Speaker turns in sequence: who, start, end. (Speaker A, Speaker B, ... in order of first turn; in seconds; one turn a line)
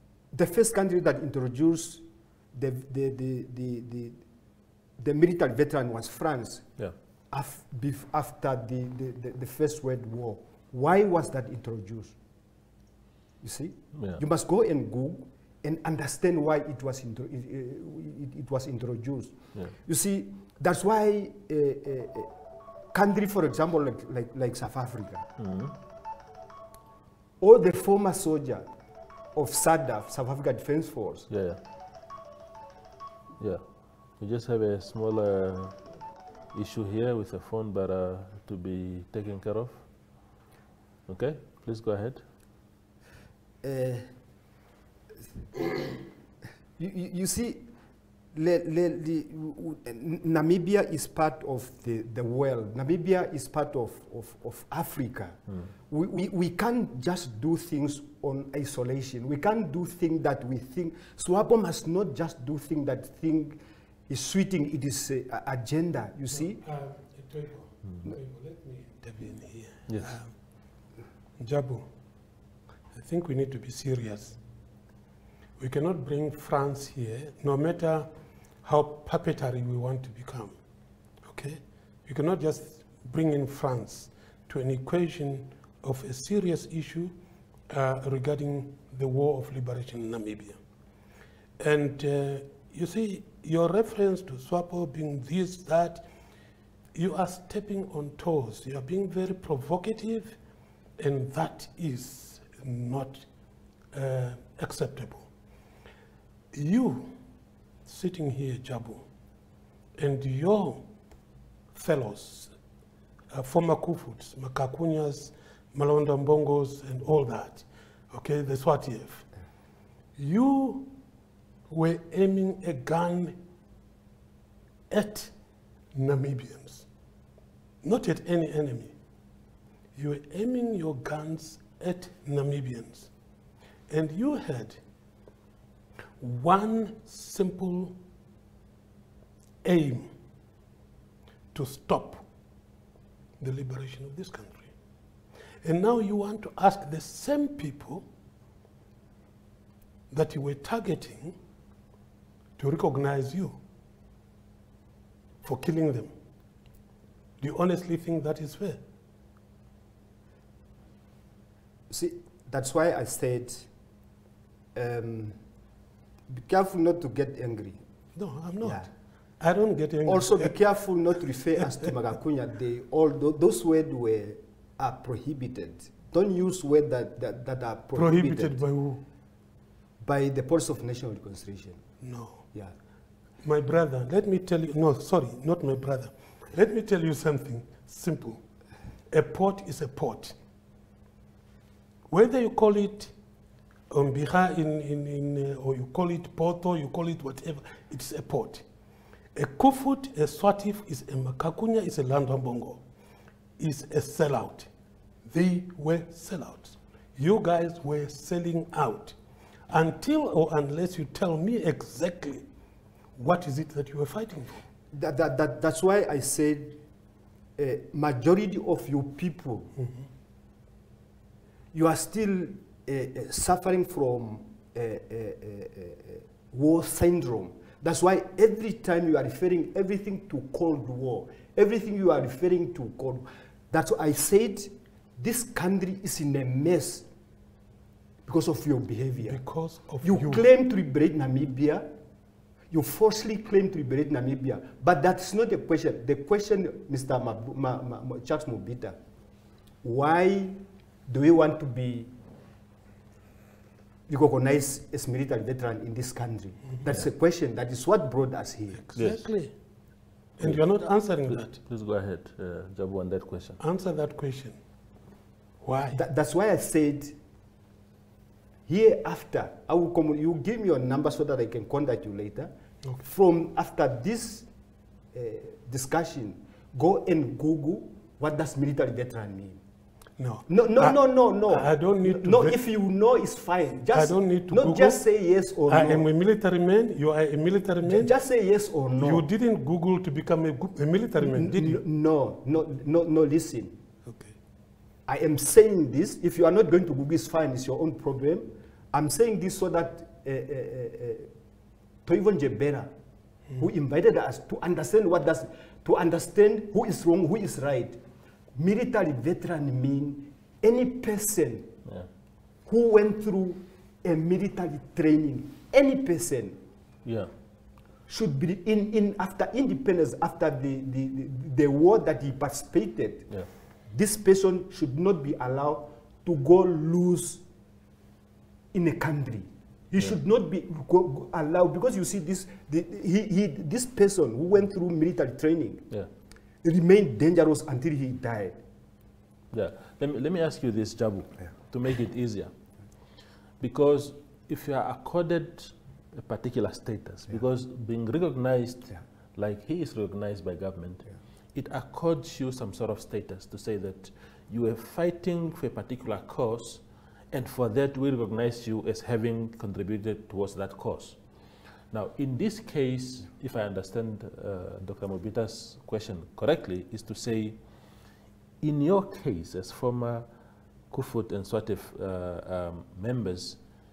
Speaker A: 0.3-4.2
Speaker A: 5.0-6.7
Speaker A: 7.3-12.1
Speaker A: 13.4-22.3
Speaker B: 13.9-14.2
Speaker A: 22.9-25.2
Speaker B: 25.4-25.7
Speaker A: 27.4-28.6
Speaker A: 29.3-31.3
Speaker B: 31.3-31.6
Speaker B: 34.2-35.8
Speaker B: 36.5-39.8
Speaker B: 41.1-42.2
Speaker A: 43.6-44.0
Speaker A: 46.8-47.7
Speaker A: 48.3-55.4
Speaker A: 55.9-66.6
Speaker C: 66.6-70.3
Speaker B: 69.9-70.1
Speaker C: 71.4-71.9
Speaker C: 72.9-74.4
Speaker C: 75.6-80.6
Speaker C: 81.2-87.2
Speaker C: 87.7-90.6
Speaker C: 91.6-96.0
Speaker C: 96.9-100.4
Speaker C: 101.0-103.3
Speaker C: 103.9-105.3
Speaker C: 106.5-107.1
Speaker C: 107.8-109.0
Speaker C: 110.0-110.8
Speaker C: 111.7-112.5
Speaker C: 113.3-119.3
Speaker C: 120.2-120.9
Speaker C: 121.7-123.4
Speaker C: 124.9-125.3
Speaker C: 125.9-126.9
Speaker C: 127.8-128.9
Speaker C: 129.9-133.1
Speaker C: 133.9-134.8
Speaker C: 136.2-138.0
Speaker C: 139.6-140.1
Speaker C: 141.5-142.2
Speaker C: 143.4-144.7
Speaker C: 145.6-148.1
Speaker C: 150.1-151.3
Speaker C: 152.6-153.6
Speaker C: 155.4-156.1
Speaker C: 157.4-158.8
Speaker A: 161.9-163.7
Speaker A: 164.7-165.4
Speaker A: 166.3-167.8
Speaker C: 168.2-168.8
Speaker A: 168.6-168.9
Speaker C: 169.4-170.5
Speaker A: 170.1-178.6
Speaker C: 177.9-179.0
Speaker A: 180.0-181.8
Speaker C: 182.0-182.4
Speaker C: 183.4-188.4
Speaker C: 189.1-190.3
Speaker C: 192.1-193.1
Speaker C: 193.9-198.6
Speaker C: 199.3-202.8
Speaker C: 203.6-204.7
Speaker C: 205.3-209.2
Speaker C: 209.7-212.4
Speaker C: 213.2-214.6
Speaker A: 214.9-216.8
Speaker A: 217.6-219.7
Speaker A: 221.7-237.1
Speaker A: 238.2-239.4
Speaker C: 239.3-240.4
Speaker A: 240.0-241.9
Speaker A: 242.7-248.9
Speaker A: 249.8-252.1
Speaker A: 254.1-258.8
Speaker C: 258.9-259.5
Speaker B: 258.9-259.2
Speaker C: 260.4-261.6
Speaker B: 261.3-263.6
Speaker C: 263.6-264.6
Speaker C: 265.6-266.0
Speaker A: 265.9-267.1
Speaker A: 268.7-274.5
Speaker A: 275.1-279.6
Speaker C: 280.2-282.6
Speaker A: 280.5-286.1
Speaker C: 283.9-285.0
Speaker C: 285.7-288.1
Speaker A: 287.8-289.3
Speaker C: 289.0-291.8
Speaker A: 291.2-293.8
Speaker C: 294.1-294.3
Speaker A: 295.1-301.3
Speaker A: 302.1-302.9
Speaker A: 303.6-308.0
Speaker A: 308.5-311.7
Speaker A: 312.7-316.6
Speaker B: 317.0-317.3
Speaker A: 318.1-323.3
Speaker A: 323.9-327.4
Speaker A: 328.7-335.8
Speaker A: 336.6-338.6
Speaker B: 339.5-342.5
Speaker B: 343.6-361.2
Speaker B: 361.9-367.6
Speaker B: 368.6-370.2
Speaker B: 370.9-373.6